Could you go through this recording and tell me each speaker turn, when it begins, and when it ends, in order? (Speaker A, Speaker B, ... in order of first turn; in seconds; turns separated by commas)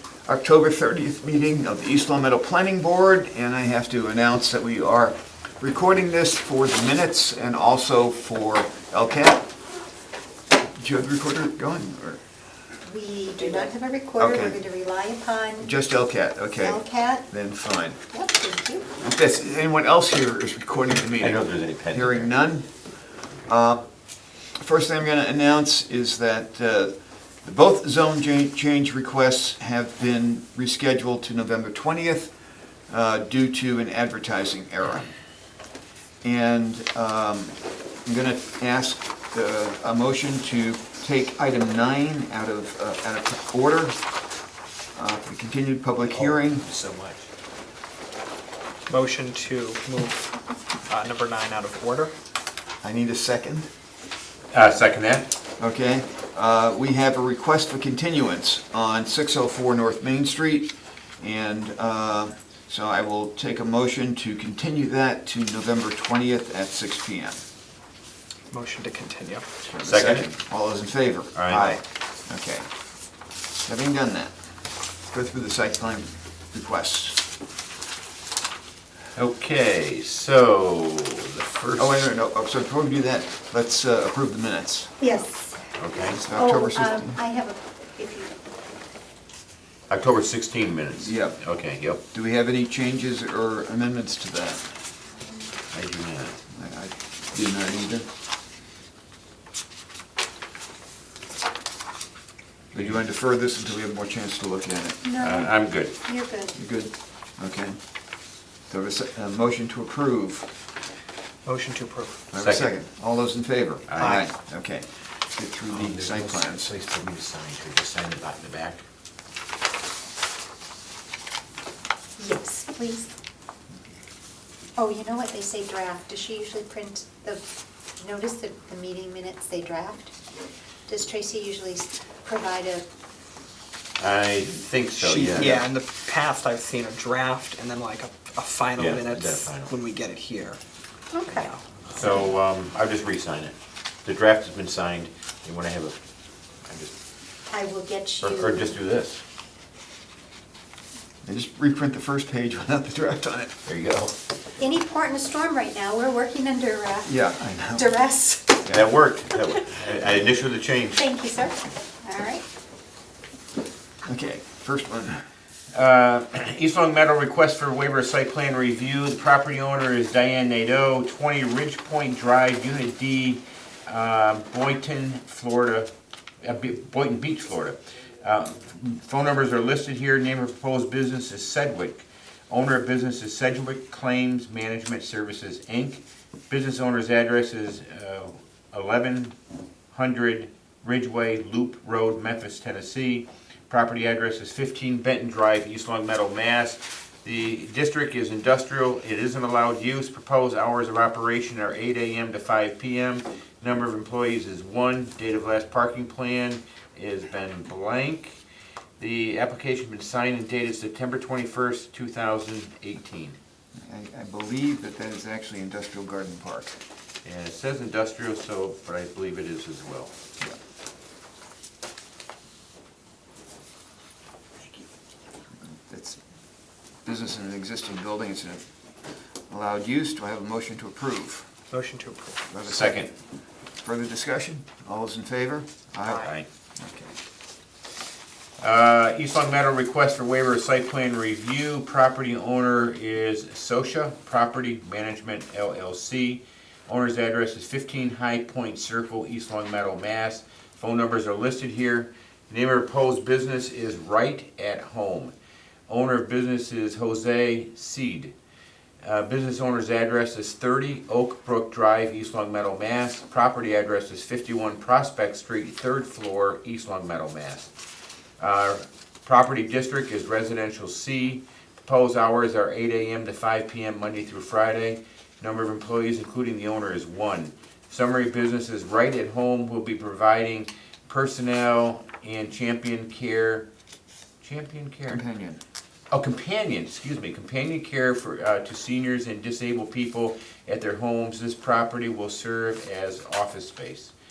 Speaker A: 0.2-9.5, Speaker A: 10.8-12.2, Speaker B: 12.8-15.7, Speaker A: 14.2-14.6, Speaker A: 15.6-18.0, Speaker B: 16.6-17.2, Speaker B: 18.1-18.9, Speaker A: 19.0-22.7, Speaker C: 21.1-22.3, Speaker A: 23.4-23.8, Speaker A: 24.5-32.3, Speaker A: 32.9-35.1, Speaker A: 36.2-44.0, Speaker A: 44.9-46.6, Speaker C: 46.1-47.3, Speaker D: 48.9-50.4, Speaker D: 50.9-52.1, Speaker A: 52.8-53.7, Speaker C: 54.5-55.3, Speaker A: 55.6-67.4, Speaker D: 68.5-69.5, Speaker A: 69.6-72.7, Speaker C: 69.8-70.3, Speaker C: 71.3-71.8, Speaker A: 73.6-74.3, Speaker A: 75.1-77.2, Speaker C: 79.1-82.1, Speaker A: 81.8-85.0, Speaker B: 85.0-88.4, Speaker C: 85.8-86.2, Speaker A: 86.2-87.2, Speaker C: 89.9-92.0, Speaker A: 91.0-91.4, Speaker A: 92.1-94.7, Speaker C: 95.7-96.4, Speaker A: 96.5-98.1, Speaker A: 102.7-105.0, Speaker B: 105.0-106.6, Speaker C: 105.2-105.9, Speaker A: 106.5-107.8, Speaker A: 108.7-110.5, Speaker D: 111.4-112.2, Speaker A: 112.3-116.7, Speaker C: 112.3-112.7, Speaker C: 113.9-114.2, Speaker C: 115.7-118.8, Speaker B: 122.2-123.1, Speaker B: 124.8-127.4, Speaker B: 128.0-130.1, Speaker B: 130.9-132.8, Speaker C: 134.0-135.7, Speaker D: 135.0-140.6, Speaker C: 138.8-139.7, Speaker B: 141.1-141.5, Speaker D: 141.3-142.2, Speaker C: 141.9-146.0, Speaker C: 146.7-146.9, Speaker B: 147.5-148.7, Speaker C: 148.2-149.2, Speaker A: 151.2-153.5, Speaker C: 153.7-154.2, Speaker B: 154.6-157.1, Speaker A: 157.0-158.0, Speaker B: 157.7-158.7, Speaker C: 158.7-161.2, Speaker B: 160.9-162.4, Speaker A: 164.0-165.2, Speaker C: 165.7-175.9, Speaker C: 176.4-189.3, Speaker C: 189.9-208.4, Speaker C: 209.0-213.4, Speaker A: 213.8-216.8, Speaker C: 217.2-220.1, Speaker A: 225.9-226.2, Speaker A: 227.0-228.6, Speaker A: 229.5-231.5, Speaker D: 231.7-232.4, Speaker A: 232.5-233.1, Speaker C: 232.6-233.1, Speaker A: 233.8-237.2, Speaker C: 236.1-236.4, Speaker C: 238.6-255.3, Speaker C: 255.9-258.3, Speaker C: 259.0-267.7, Speaker C: 268.4-283.7, Speaker C: 284.4-285.2, Speaker A: 285.1-285.6, Speaker C: 286.1-294.1